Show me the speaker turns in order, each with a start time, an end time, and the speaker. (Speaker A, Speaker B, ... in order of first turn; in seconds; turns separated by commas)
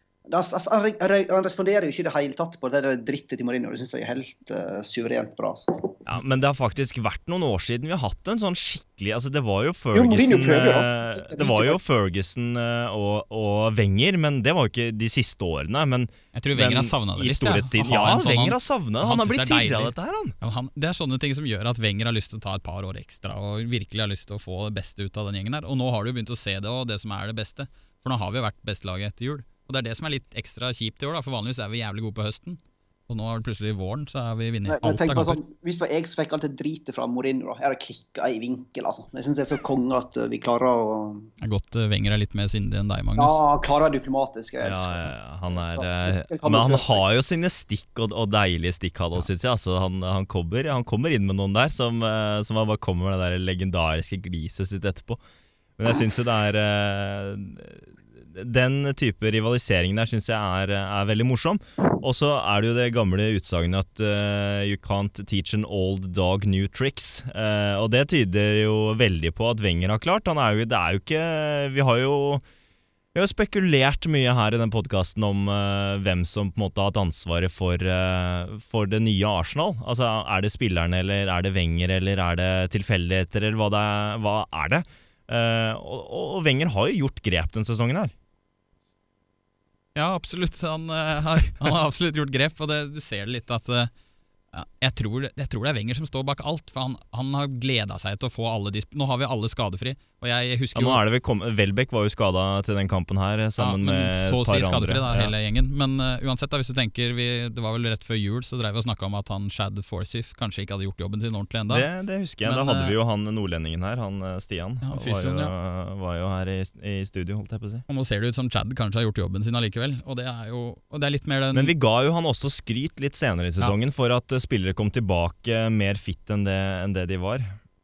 Speaker A: 0.3-5.8, Speaker B: 6.0-20.4, Speaker A: 9.9-11.8, Speaker C: 16.3-35.4, Speaker A: 34.7-41.3, Speaker C: 41.4-43.4, Speaker A: 43.2-47.0, Speaker B: 44.6-55.2, Speaker B: 55.8-57.8, Speaker B: 58.3-72.4, Speaker B: 73.2-88.1, Speaker C: 90.0-93.9, Speaker C: 94.5-101.0, Speaker B: 100.8-105.3, Speaker C: 103.6-111.9, Speaker B: 111.7-117.8, Speaker C: 112.4-113.0, Speaker C: 114.8-115.5, Speaker C: 117.9-121.7, Speaker B: 121.5-127.5